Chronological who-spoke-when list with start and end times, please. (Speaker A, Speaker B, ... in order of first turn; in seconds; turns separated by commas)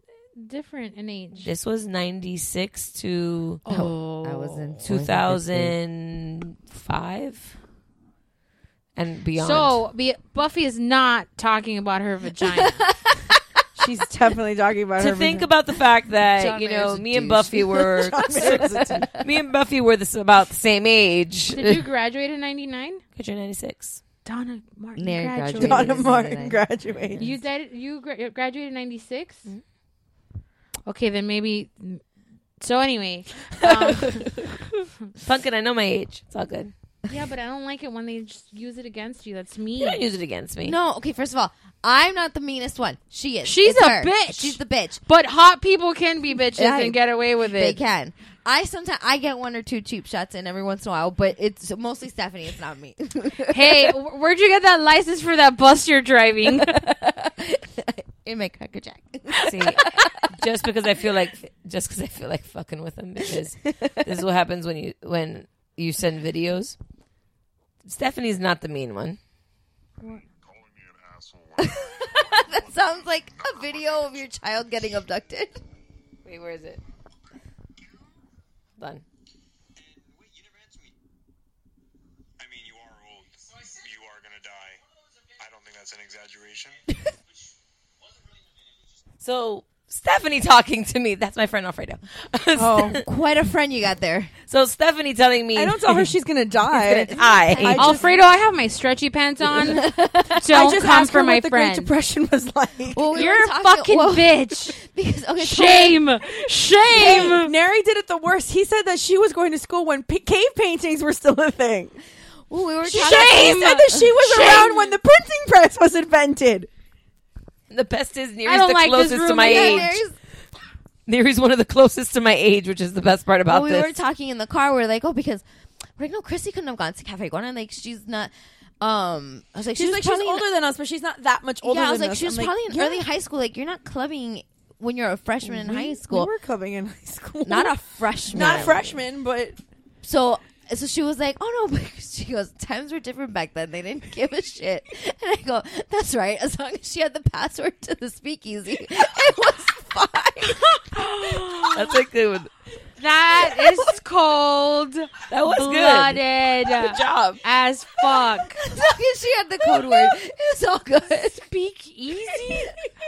Speaker A: 0.4-1.5, Speaker B: 1.4-3.6, Speaker C: 3.7-4.8, Speaker D: 3.7-5.8, Speaker B: 4.8-7.5, Speaker B: 9.0-9.8, Speaker A: 9.4-12.9, Speaker D: 12.4-13.4, Speaker C: 13.8-15.5, Speaker B: 15.0-21.9, Speaker D: 16.3-19.2, Speaker C: 17.5-19.2, Speaker A: 21.5-23.0, Speaker B: 23.2-24.0, Speaker A: 24.2-26.1, Speaker D: 25.0-27.4, Speaker C: 25.5-27.2, Speaker A: 27.2-29.5, Speaker A: 30.9-32.0, Speaker A: 32.6-34.4, Speaker B: 33.6-34.5, Speaker B: 35.2-36.7, Speaker A: 37.1-40.1, Speaker B: 39.8-40.8, Speaker D: 40.6-45.0, Speaker A: 43.4-47.8, Speaker D: 46.6-54.0, Speaker A: 53.5-56.9, Speaker D: 56.5-60.1, Speaker B: 59.4-66.8, Speaker D: 63.7-64.1, Speaker B: 67.8-69.2, Speaker E: 70.3-74.0, Speaker D: 71.6-75.6, Speaker B: 76.2-76.8, Speaker B: 78.8-79.0, Speaker E: 79.8-81.0, Speaker E: 82.4-84.8, Speaker E: 85.4-86.8, Speaker B: 89.2-93.0, Speaker C: 92.6-93.0, Speaker D: 92.9-94.3, Speaker B: 94.5-96.1, Speaker C: 95.5-98.2, Speaker B: 96.9-97.9, Speaker D: 97.1-98.1, Speaker A: 97.8-101.9, Speaker C: 99.5-99.8, Speaker D: 99.7-100.7, Speaker C: 100.5-103.3, Speaker D: 102.9-106.0, Speaker A: 103.2-104.8, Speaker A: 105.4-107.5, Speaker C: 106.9-112.0, Speaker D: 107.0-107.3, Speaker D: 112.5-114.7, Speaker C: 112.9-116.7, Speaker A: 112.9-114.9, Speaker B: 117.7-120.0, Speaker A: 118.5-120.0, Speaker D: 119.4-120.1, Speaker B: 121.1-124.0, Speaker D: 123.5-125.4, Speaker D: 126.0-130.5, Speaker C: 129.7-133.0, Speaker D: 131.6-136.3, Speaker C: 135.4-137.8, Speaker D: 137.4-139.0, Speaker C: 138.3-139.6, Speaker D: 140.0-151.1, Speaker A: 150.7-151.9, Speaker B: 151.7-152.5, Speaker A: 153.0-158.6, Speaker B: 155.3-156.2, Speaker B: 156.7-157.4, Speaker D: 158.6-161.5, Speaker A: 161.4-162.8